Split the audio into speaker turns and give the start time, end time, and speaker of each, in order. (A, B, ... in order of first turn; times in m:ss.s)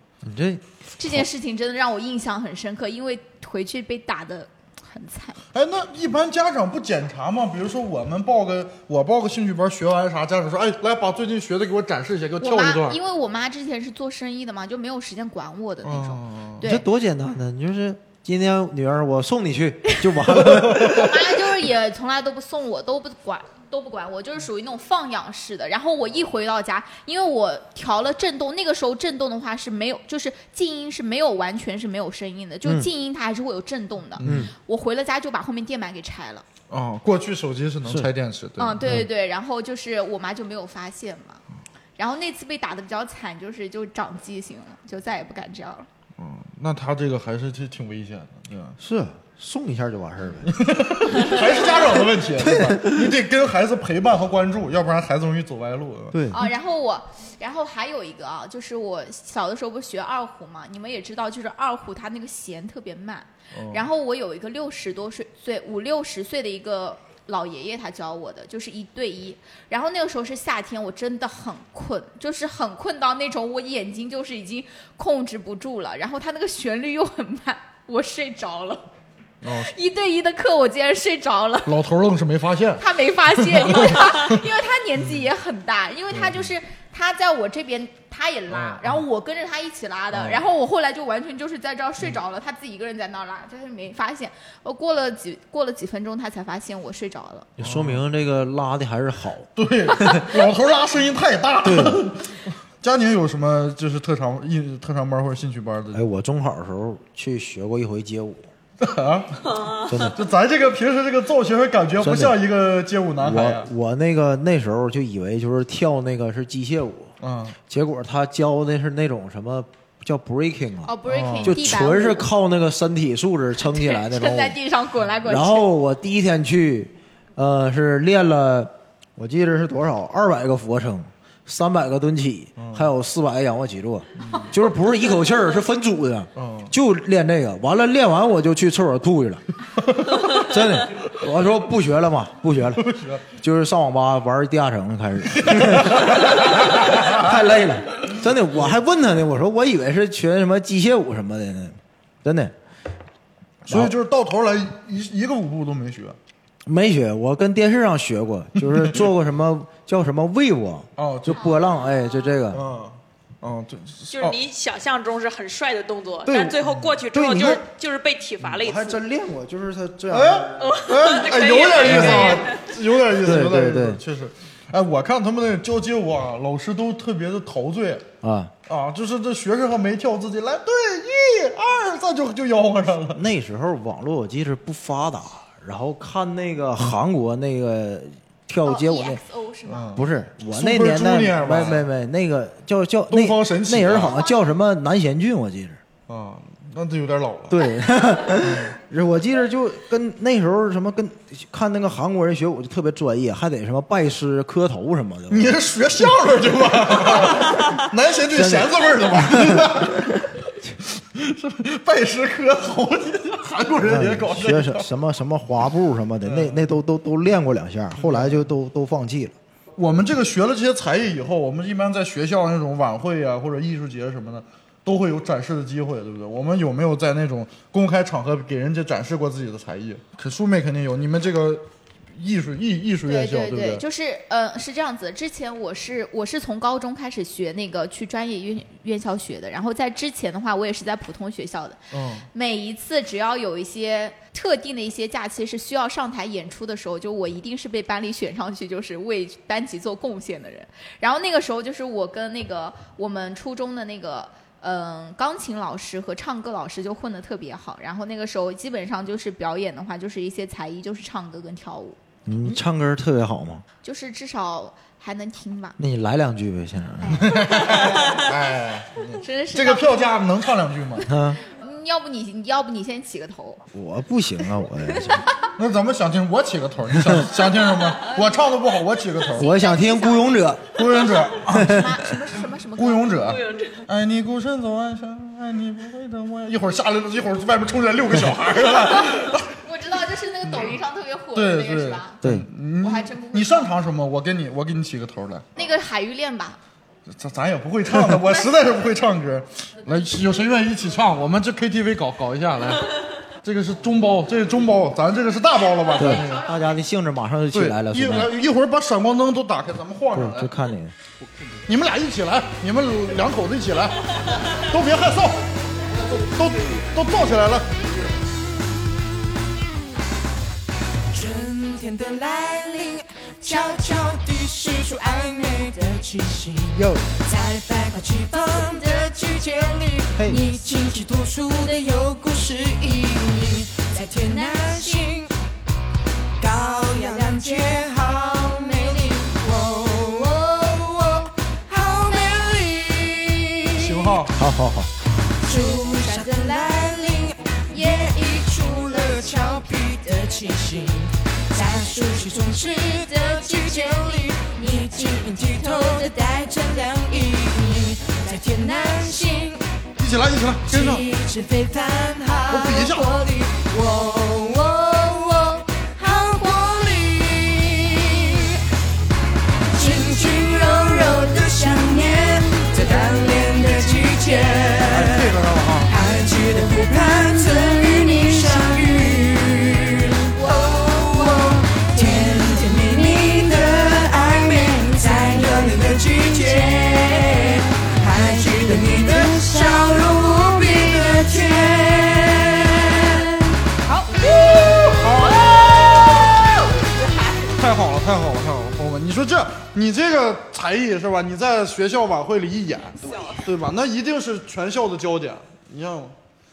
0:00.2-0:01.2 A
0:01.0-0:05.4 B
0:05.5-0:13.0 C
0:12.4-0:16.8 B
0:15.8-0:16.6 C
0:16.6-0:21.1 A
0:20.5-0:21.0 C
0:20.7-0:36.4 B
0:34.2-0:34.5 C
0:34.2-0:34.5 A
0:36.7-0:38.8 C
0:37.8-0:38.1 A
0:38.6-0:41.4 B
0:42.0-0:45.9 B
0:46.2-0:48.8 C
0:48.8-0:50.5 A
0:50.4-0:56.3 C
0:52.4-0:53.1 A
0:56.1-0:56.5 A
0:56.3-1:18.9 B
1:03.5-1:03.8 C
1:19.4-1:19.7 C
1:19.5-1:21.8 B
1:21.7-1:22.8 C
1:22.8-1:37.5 B
1:23.4-1:24.4 C
1:26.1-1:26.4 C
1:28.5-1:29.0 C
1:30.1-1:30.4 C
1:37.6-1:40.2 A
1:37.6-1:38.0 C
1:39.6-1:46.0 C
1:41.6-1:42.0 A
1:45.9-1:48.5 A
1:48.8-1:53.7 C
1:49.9-1:50.2 A
1:52.0-1:52.4 A
1:53.2-1:57.1 A
1:57.2-1:57.6 C
1:57.7-2:04.6 A
2:00.8-2:02.3 B
2:01.0-2:01.6 C
2:03.6-2:05.7 B
2:05.2-2:19.4 A
2:12.6-2:12.9 C
2:14.2-2:14.5 C
2:16.4-2:16.7 C
2:20.2-2:32.5 A
2:22.8-2:23.2 C
2:25.4-2:27.2 C
2:33.6-2:36.2 C
2:33.7-2:33.9 A
2:36.6-2:42.6 A
2:38.6-2:39.0 C
2:41.0-2:41.5 C
2:42.5-2:44.4 C
2:44.1-2:49.0 D
2:46.2-2:47.6 A
2:48.5-2:50.8 A
2:50.1-2:58.0 C
2:50.6-2:52.7 D
2:51.8-2:52.4 A
2:53.2-2:54.0 A
2:58.2-2:58.5 A
2:58.7-3:03.2 C
3:03.1-3:09.2 A
3:08.6-3:10.0 B
3:09.7-3:11.9 C
3:09.9-3:15.8 A
3:13.1-3:14.1 C
3:14.1-3:14.4 B
3:16.1-3:17.6 C
3:17.5-3:25.6 A
3:18.4-3:18.7 C
3:25.3-3:30.2 C
3:28.3-3:30.1 A
3:30.9-3:34.9 C
3:33.8-3:39.3 A
3:36.2-3:36.6 C
3:38.0-3:38.4 C
3:39.8-3:53.8 C
3:53.0-4:01.8 B
4:01.9-4:02.3 C
4:02.3-4:22.0 B
4:22.2-4:23.6 A
4:23.8-4:25.8 B
4:25.8-4:27.4 A
4:27.1-4:31.1 C
4:29.2-4:30.1 B
4:31.1-4:31.4 A
4:31.4-4:33.6 B
4:33.7-4:35.3 A
4:35.6-4:39.5 C
4:39.4-4:40.8 A
4:39.4-4:40.5 B
4:40.7-4:41.9 C
4:41.4-4:42.0 A
4:41.5-4:43.1 B
4:42.8-4:49.5 C
4:43.3-4:43.8 D
4:48.1-4:48.4 A
4:49.6-4:52.2 B
4:51.3-4:55.5 C
4:52.2-4:52.5 A
4:52.8-4:53.7 B
4:55.6-4:56.6 B
4:57.1-5:06.5 C
5:06.0-5:08.3 A
5:07.5-5:10.5 C
5:10.1-5:10.9 A
5:11.6-5:18.1 C
5:21.1-5:35.3 E
5:26.7-5:27.0 A
5:30.2-5:30.4 A
5:36.4-5:44.2 E
5:43.8-5:44.3 C
5:44.3-5:44.9 A
5:45.4-5:59.6 E
6:00.0-6:01.1 C
6:00.7-6:08.6 E
6:02.5-6:03.2 C
6:09.7-6:15.3 E
6:14.9-6:15.5 A
6:14.9-6:15.9 C
6:15.9-6:33.4 E
6:34.3-6:36.2 C
6:34.6-6:36.3 E
6:37.6-6:46.1 C